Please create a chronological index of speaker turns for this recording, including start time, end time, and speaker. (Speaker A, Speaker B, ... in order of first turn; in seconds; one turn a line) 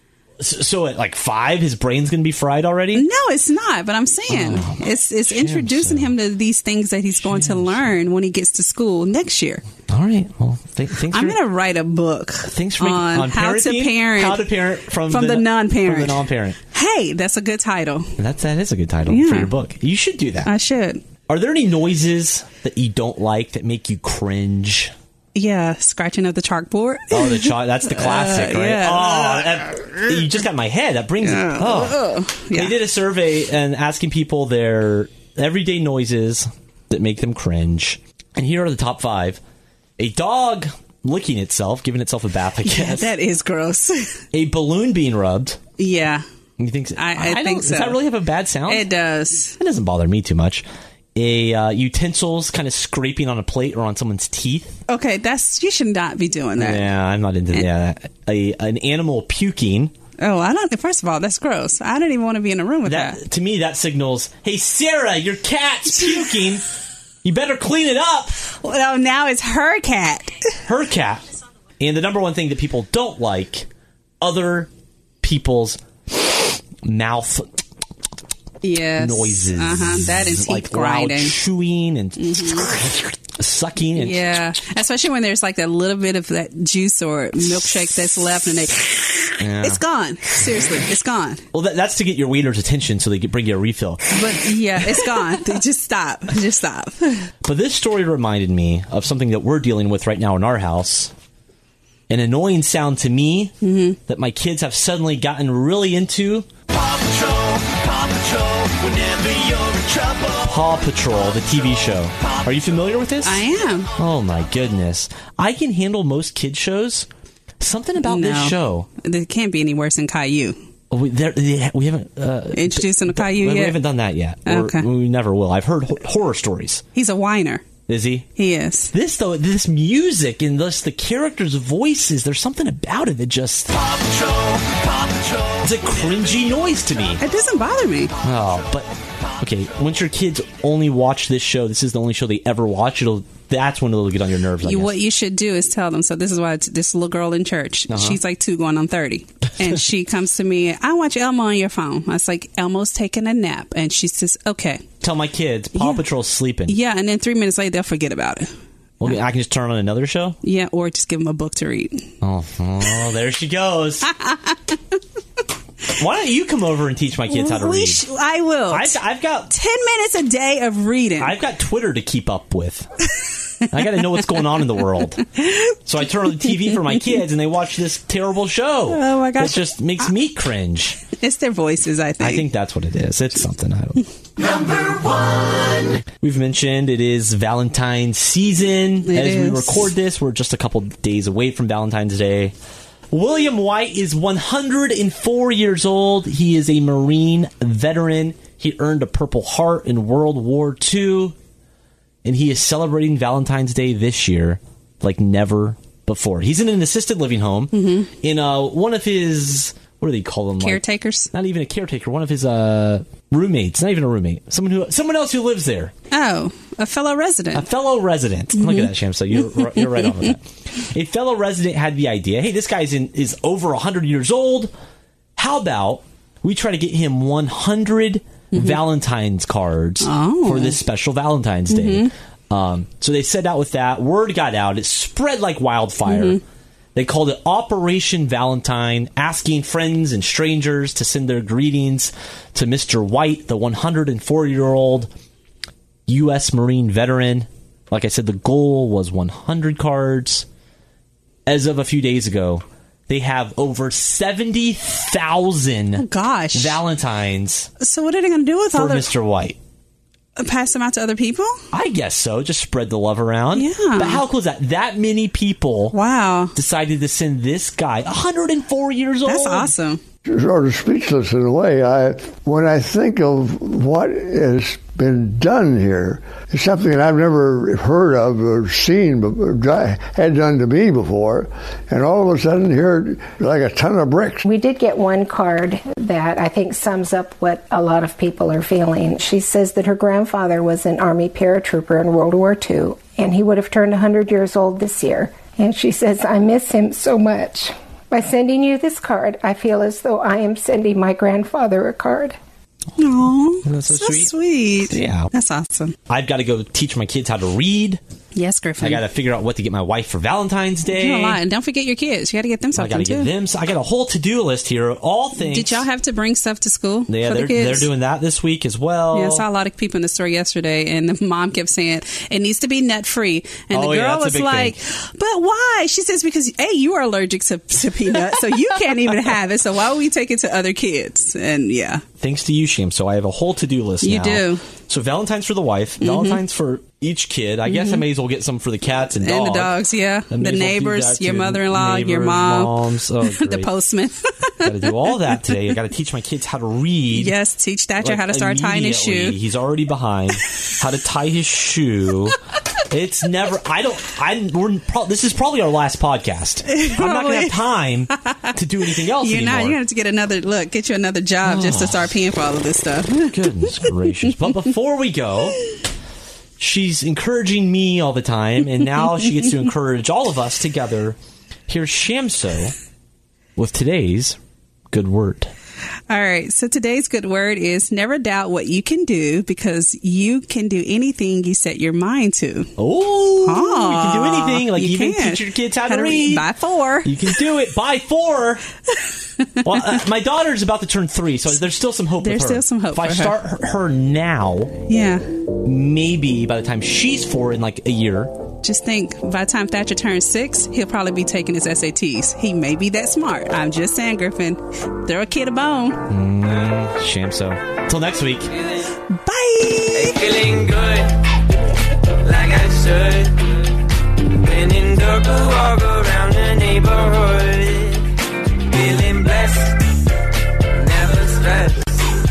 Speaker A: 0.4-3.0
Speaker B: 2.9-9.6
Speaker A: 4.3-6.1
Speaker A: 7.2-7.9
Speaker A: 9.9-11.4
Speaker B: 11.1-14.5
Speaker A: 12.4-16.6
Speaker B: 15.0-18.2
Speaker A: 18.2-20.5
Speaker B: 19.1-19.5
Speaker B: 20.4-21.0
Speaker A: 21.3-24.9
Speaker B: 25.3-30.0
Speaker A: 27.1-32.0
Speaker B: 31.2-32.7
Speaker A: 32.5-39.4
Speaker A: 40.0-43.1
Speaker B: 42.6-44.2
Speaker A: 44.3-45.6
Speaker B: 45.8-46.2
Speaker A: 46.6-48.9
Speaker B: 46.9-48.0
Speaker B: 48.7-49.6
Speaker A: 49.6-50.6
Speaker A: 51.1-54.8
Speaker B: 54.9-56.9
Speaker A: 56.6-59.9
Speaker B: 60.2-63.2
Speaker A: 62.8-66.6
Speaker A: 67.2-68.4
Speaker B: 68.5-70.6
Speaker A: 70.6-73.7
Speaker A: 74.2-74.7
Speaker A: 75.2-76.2
Speaker A: 76.8-77.5
Speaker B: 78.6-81.3
Speaker A: 79.0-84.2
Speaker B: 82.2-82.7
Speaker B: 83.9-91.4
Speaker A: 89.4-89.8
Speaker A: 91.5-94.2
Speaker B: 94.1-97.3
Speaker A: 97.4-101.1
Speaker A: 102.1-103.5
Speaker B: 103.6-104.0
Speaker A: 104.1-106.5
Speaker A: 107.3-113.4
Speaker B: 113.2-113.9
Speaker A: 114.0-117.1
Speaker A: 117.6-118.9
Speaker B: 118.0-120.6
Speaker A: 120.9-126.8
Speaker B: 122.5-123.8
Speaker B: 124.4-124.8
Speaker B: 126.9-127.6
Speaker A: 127.9-128.3
Speaker B: 128.3-128.9
Speaker A: 128.9-134.4
Speaker A: 135.5-137.2
Speaker B: 137.2-138.1
Speaker A: 138.2-144.9
Speaker B: 144.6-154.8
Speaker A: 147.9-148.2
Speaker A: 155.0-156.8
Speaker B: 155.7-156.0
Speaker B: 156.7-158.5
Speaker A: 159.0-160.4
Speaker B: 160.4-162.1
Speaker A: 162.2-164.1
Speaker B: 164.1-164.8
Speaker A: 165.9-168.0
Speaker B: 167.3-169.0
Speaker A: 168.7-169.5
Speaker B: 169.5-171.3
Speaker A: 171.2-172.9
Speaker A: 173.7-175.2
Speaker B: 175.4-175.7
Speaker A: 175.8-181.0
Speaker B: 178.9-180.1
Speaker B: 181.1-182.4
Speaker A: 182.2-192.5
Speaker B: 189.1-189.9
Speaker A: 193.1-201.3
Speaker A: 202.2-215.9
Speaker B: 207.7-208.1
Speaker B: 210.6-211.3
Speaker B: 216.1-217.7
Speaker A: 217.5-224.7
Speaker B: 218.6-218.8
Speaker A: 225.4-236.4
Speaker B: 230.0-230.8
Speaker B: 231.7-232.1
Speaker B: 236.1-236.4
Speaker A: 236.9-245.1
Speaker A: 246.1-250.4
Speaker A: 251.5-257.7
Speaker B: 256.0-256.8
Speaker B: 257.8-259.1
Speaker A: 258.7-259.6
Speaker B: 260.4-261.6
Speaker A: 261.7-265.9
Speaker B: 263.5-264.2
Speaker B: 265.9-266.5
Speaker A: 266.5-269.7
Speaker B: 269.2-270.0
Speaker C: 270.2-284.4
Speaker D: 284.4-302.4
Speaker B: 303.0-305.9
Speaker A: 303.6-305.3
Speaker A: 306.1-308.0
Speaker B: 308.3-309.0
Speaker A: 308.8-311.4
Speaker B: 310.9-313.3
Speaker A: 312.8-315.9
Speaker B: 315.4-317.9
Speaker A: 317.1-319.4
Speaker B: 319.1-332.0
Speaker A: 323.7-324.8
Speaker A: 332.2-339.8
Speaker B: 334.0-334.6
Speaker B: 336.0-336.4
Speaker B: 337.7-338.0
Speaker B: 339.2-345.6
Speaker A: 340.3-343.7
Speaker A: 344.6-347.3
Speaker B: 347.1-349.4
Speaker A: 348.0-352.4
Speaker A: 352.9-359.8
Speaker B: 356.7-357.6
Speaker B: 358.3-364.4
Speaker A: 361.4-362.1
Speaker A: 363.3-365.6
Speaker A: 366.6-371.2
Speaker A: 371.7-372.7
Speaker A: 373.6-374.4
Speaker A: 374.9-375.5
Speaker B: 376.1-382.7
Speaker A: 382.8-386.5
Speaker B: 383.4-387.1
Speaker A: 387.0-388.6
Speaker B: 389.4-390.0
Speaker A: 389.6-394.7
Speaker B: 392.2-393.3
Speaker B: 394.8-395.2
Speaker A: 395.6-398.3
Speaker B: 398.6-406.0
Speaker A: 406.1-408.5
Speaker B: 409.1-410.4
Speaker E: 410.3-411.2
Speaker E: 412.2-413.4
Speaker E: 414.4-418.0
Speaker E: 418.7-419.8
Speaker E: 420.8-421.8